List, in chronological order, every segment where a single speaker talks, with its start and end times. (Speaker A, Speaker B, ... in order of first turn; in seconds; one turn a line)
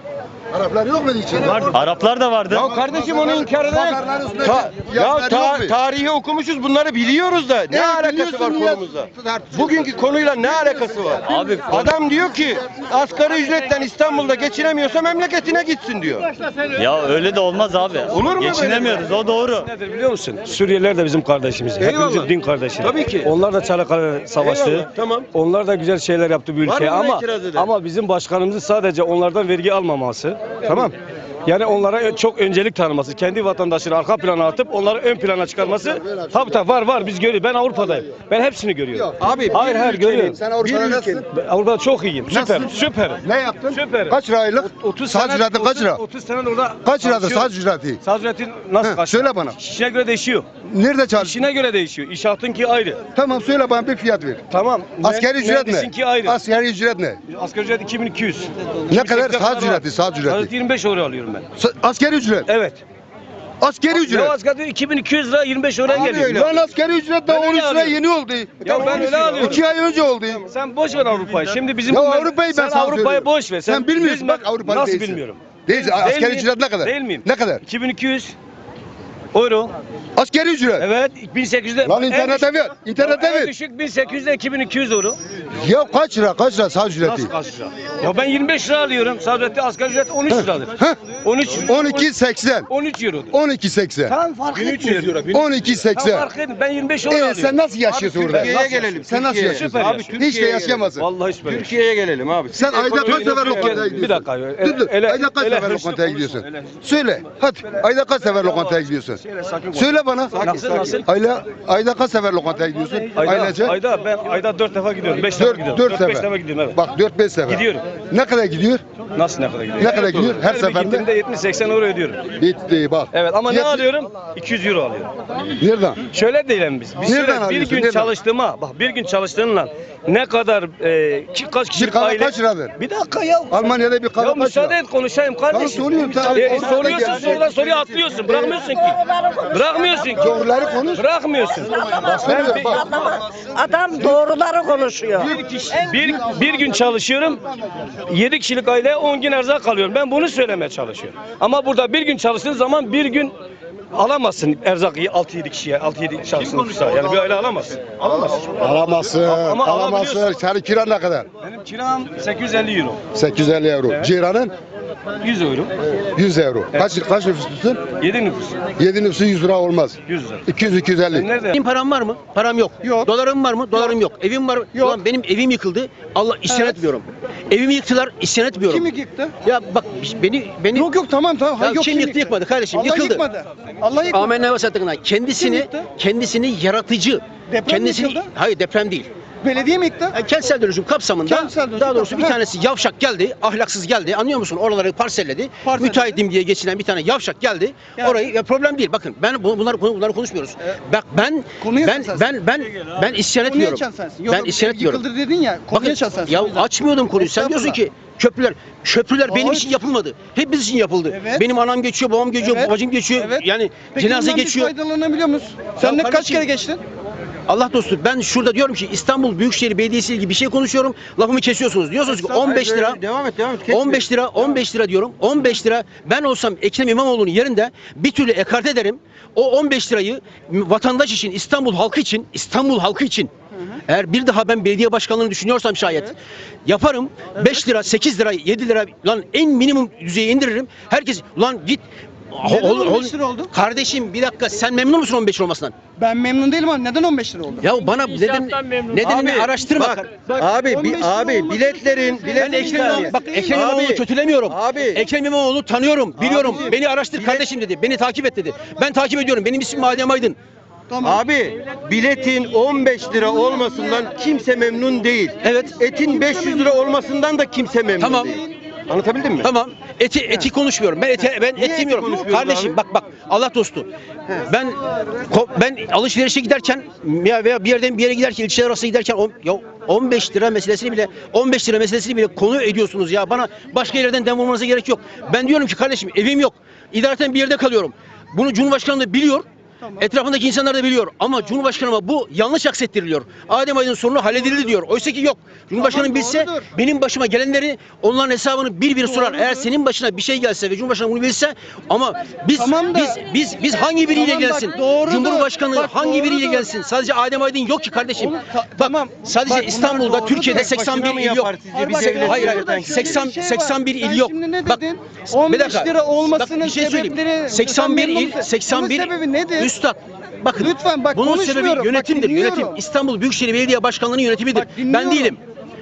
Speaker A: 0.5-1.8
Speaker B: 1.4-2.7
Speaker C: 2.5-16.3
Speaker A: 2.6-5.7
Speaker A: 7.7-9.9
Speaker B: 11.2-11.9
Speaker B: 16.7-19.7
Speaker C: 18.1-19.1
Speaker D: 19.6-30.9
Speaker C: 21.8-23.3
Speaker C: 24.4-25.3
Speaker C: 26.6-27.7
Speaker D: 31.4-40.4
Speaker A: 35.6-36.7
Speaker A: 38.9-41.3
Speaker C: 39.2-41.2
Speaker D: 41.2-50.5
Speaker A: 42.3-46.0
Speaker A: 46.8-48.0
Speaker A: 48.8-49.5
Speaker A: 50.6-51.4
Speaker D: 51.1-53.0
Speaker A: 53.1-54.4
Speaker D: 54.5-56.4
Speaker A: 55.0-57.2
Speaker D: 57.3-61.5
Speaker A: 58.9-60.5
Speaker A: 61.6-62.5
Speaker D: 62.5-62.8
Speaker A: 63.6-64.4
Speaker D: 63.9-66.4
Speaker C: 65.8-66.6
Speaker A: 65.9-70.5
Speaker D: 67.3-68.0
Speaker D: 68.6-69.7
Speaker C: 68.7-69.6
Speaker D: 70.4-78.3
Speaker A: 71.8-77.6
Speaker D: 79.3-79.7
Speaker A: 80.2-80.9
Speaker D: 80.8-85.2
Speaker A: 81.8-83.5
Speaker A: 85.6-87.3
Speaker D: 87.0-92.1
Speaker A: 90.3-91.0
Speaker A: 91.5-92.7
Speaker D: 92.7-93.3
Speaker A: 93.3-96.3
Speaker D: 94.1-97.6
Speaker A: 97.0-101.1
Speaker C: 97.9-100.8
Speaker D: 98.3-100.2
Speaker D: 100.9-101.7
Speaker C: 101.4-103.8
Speaker A: 102.5-109.2
Speaker D: 103.0-111.0
Speaker A: 109.7-110.4
Speaker C: 110.3-111.0
Speaker A: 111.0-113.8
Speaker D: 113.0-116.8
Speaker A: 115.3-118.8
Speaker D: 117.5-117.8
Speaker D: 119.1-122.3
Speaker A: 119.8-121.1
Speaker C: 119.9-120.4
Speaker A: 122.4-124.0
Speaker D: 123.1-125.1
Speaker A: 125.6-126.0
Speaker D: 126.0-139.0
Speaker A: 127.0-128.1
Speaker A: 131.7-132.7
Speaker A: 133.5-134.8
Speaker A: 135.5-138.6
Speaker E: 138.8-140.4
Speaker D: 139.5-140.4
Speaker A: 140.2-141.0
Speaker D: 140.9-142.7
Speaker E: 141.7-145.3
Speaker A: 141.8-143.3
Speaker A: 144.0-144.3
Speaker A: 145.2-146.2
Speaker D: 145.2-147.4
Speaker D: 148.1-153.3
Speaker D: 153.9-158.6
Speaker C: 158.0-158.4
Speaker A: 158.5-161.3
Speaker D: 159.2-160.3
Speaker D: 161.4-163.0
Speaker A: 163.1-164.5
Speaker D: 165.2-165.7
Speaker A: 166.2-167.8
Speaker D: 166.7-167.1
Speaker D: 168.0-168.6
Speaker A: 168.8-171.3
Speaker D: 170.1-170.4
Speaker D: 171.1-171.6
Speaker F: 171.5-178.9
Speaker G: 172.8-173.1
Speaker G: 174.7-175.0
Speaker G: 176.5-176.8
Speaker G: 178.7-179.3
Speaker F: 179.4-180.9
Speaker G: 180.7-184.3
Speaker F: 181.6-183.2
Speaker F: 184.1-189.1
Speaker G: 185.3-185.8
Speaker G: 187.5-188.3
Speaker G: 189.4-190.1
Speaker F: 190.1-205.0
Speaker G: 191.2-192.4
Speaker G: 195.6-196.2
Speaker G: 198.0-198.2
Speaker G: 201.6-202.3
Speaker G: 203.3-207.8
Speaker F: 205.7-214.7
Speaker G: 209.3-209.8
Speaker G: 211.1-211.4
Speaker G: 212.4-216.8
Speaker F: 215.8-216.4
Speaker F: 217.5-223.0
Speaker C: 222.1-224.1
Speaker F: 223.7-233.3
Speaker F: 233.8-245.7
Speaker G: 242.4-243.5
Speaker G: 246.0-247.7
Speaker F: 247.6-250.1
Speaker B: 247.9-249.3
Speaker C: 249.0-255.0
Speaker G: 250.2-253.6
Speaker F: 252.4-260.4
Speaker C: 256.2-257.5
Speaker G: 260.9-261.2
Speaker C: 261.0-269.5
Speaker G: 263.1-264.1
Speaker F: 265.4-265.7
Speaker G: 265.9-266.8
Speaker F: 268.0-268.3
Speaker F: 269.4-273.9
Speaker C: 271.6-272.8
Speaker F: 274.4-274.8
Speaker F: 275.3-289.4
Speaker F: 290.0-325.4
Speaker G: 295.7-296.7
Speaker G: 299.0-299.7
Speaker G: 302.6-303.2
Speaker G: 304.1-306.7
Speaker G: 308.2-310.7
Speaker C: 310.5-313.2
Speaker G: 311.7-319.7
Speaker G: 320.6-322.8
Speaker G: 324.5-325.4